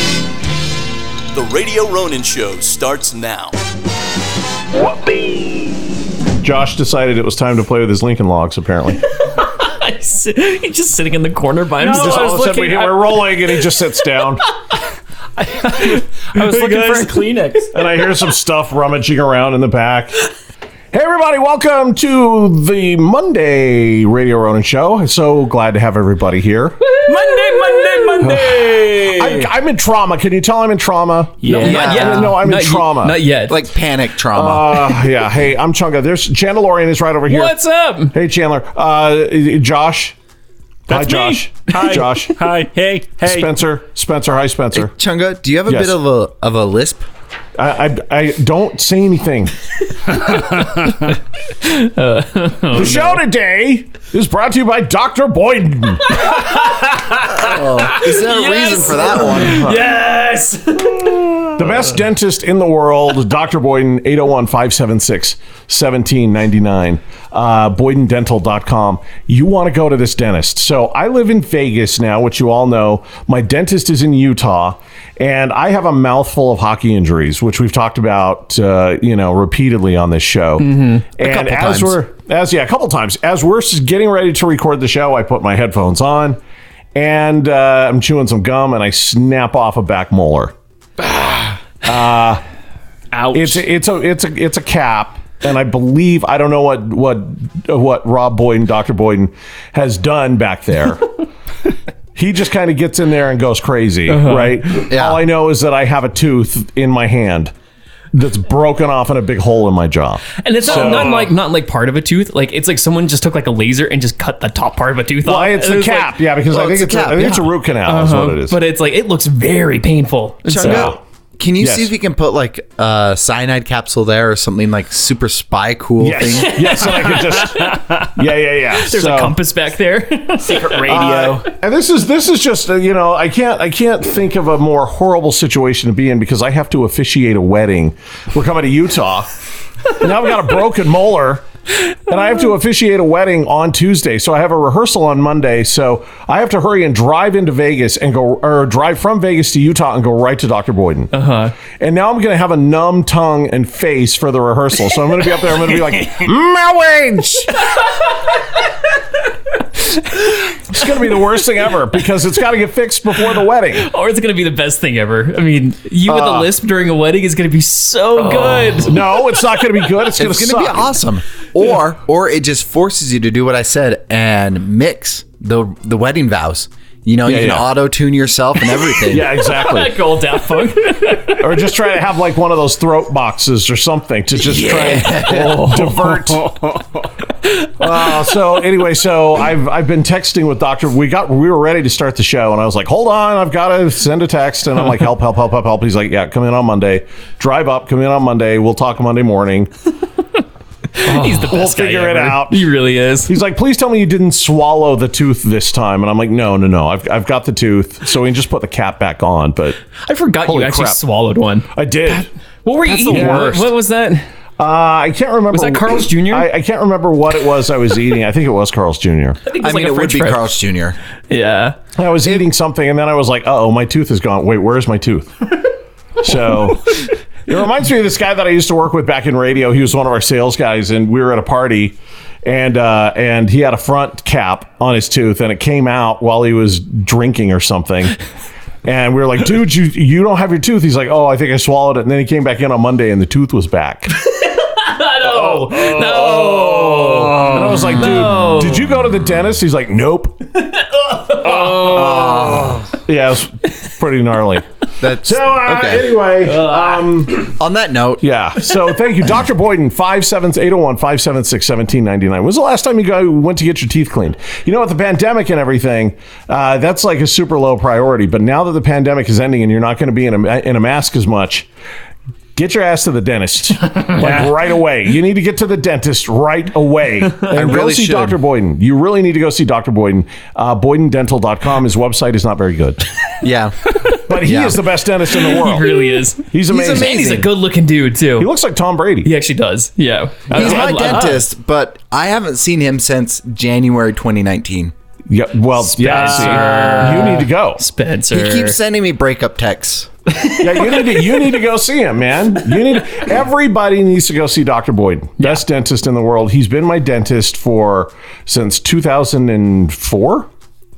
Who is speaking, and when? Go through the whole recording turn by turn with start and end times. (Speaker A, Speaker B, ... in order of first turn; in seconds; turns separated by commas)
Speaker A: 1.3-3.6, Speaker B: 6.4-9.0, Speaker C: 9.2-13.4, Speaker D: 11.8-12.9, Speaker B: 11.8-14.4, Speaker D: 15.4-17.7, Speaker C: 15.6-17.6, Speaker B: 17.7-20.1, Speaker B: 20.9-26.8, Speaker C: 26.8-29.5, Speaker D: 27.1-27.5, Speaker B: 28.2-33.2, Speaker D: 31.4-32.3, Speaker C: 31.5-33.7, Speaker E: 31.6-32.3, Speaker E: 33.5-35.0, Speaker B: 34.3-37.5, Speaker C: 37.3-38.1, Speaker B: 38.1-40.1, Speaker B: 40.9-42.5, Speaker D: 40.9-43.6, Speaker B: 43.2-44.9, Speaker E: 44.8-47.1, Speaker B: 45.7-46.0, Speaker B: 47.5-49.5, Speaker C: 50.4-51.1, Speaker C: 51.6-53.2, Speaker B: 52.7-56.3, Speaker C: 56.2-61.6, Speaker E: 57.3-59.7, Speaker B: 59.3-59.9, Speaker B: 61.5-86.4, Speaker C: 80.6-81.1, Speaker E: 81.2-82.0, Speaker B: 86.9-90.5, Speaker B: 91.1-92.4, Speaker D: 93.1-93.6, Speaker B: 93.3-101.1, Speaker B: 102.1-107.5, Speaker C: 104.1-104.6, Speaker E: 104.9-105.2, Speaker B: 108.1-111.3, Speaker C: 110.4-116.2, Speaker B: 115.2-118.6, Speaker E: 116.5-117.5, Speaker C: 117.8-120.9, Speaker E: 120.5-126.7, Speaker B: 120.6-121.0, Speaker B: 121.6-121.9, Speaker B: 126.0-129.4, Speaker C: 126.5-127.7, Speaker C: 128.8-131.5, Speaker D: 130.5-131.4, Speaker B: 130.7-139.3, Speaker B: 139.9-141.5, Speaker B: 142.1-151.1, Speaker C: 151.1-151.5, Speaker B: 151.8-157.7, Speaker C: 158.3-158.6, Speaker B: 160.7-163.9, Speaker C: 163.7-169.4, Speaker B: 166.0-166.5, Speaker B: 168.7-171.0, Speaker E: 170.1-179.3, Speaker B: 177.2-177.8, Speaker C: 178.8-181.6, Speaker B: 179.1-180.0, Speaker B: 181.3-186.8, Speaker E: 184.4-185.8, Speaker D: 185.3-187.1, Speaker B: 187.8-199.7, Speaker C: 201.0-203.3, Speaker B: 201.0-202.7, Speaker B: 203.2-209.8, Speaker C: 210.1-211.7, Speaker B: 210.4-211.0, Speaker B: 211.7-212.3, Speaker C: 212.6-214.2, Speaker D: 212.8-213.7, Speaker B: 213.1-213.7, Speaker B: 214.6-219.4, Speaker C: 215.5-216.5, Speaker C: 219.4-220.6, Speaker E: 219.6-221.0, Speaker C: 221.3-221.8, Speaker B: 221.9-225.6, Speaker B: 226.2-238.2, Speaker B: 238.8-244.1, Speaker C: 244.2-248.9, Speaker B: 245.2-250.5, Speaker C: 250.7-252.6, Speaker B: 251.4-257.5, Speaker E: 251.9-252.8, Speaker E: 255.0-256.1, Speaker C: 256.4-257.1, Speaker E: 257.6-258.2, Speaker B: 258.2-271.7, Speaker B: 272.6-283.1, Speaker E: 277.5-278.4, Speaker E: 283.4-284.8, Speaker B: 284.2-287.5, Speaker C: 285.3-288.5, Speaker E: 286.7-287.4, Speaker B: 288.4-289.3, Speaker C: 289.2-291.4, Speaker E: 290.5-294.9, Speaker B: 295.3-297.8, Speaker D: 296.0-297.4, Speaker C: 296.0-298.8, Speaker E: 298.3-300.1, Speaker C: 300.3-301.4, Speaker B: 300.6-310.5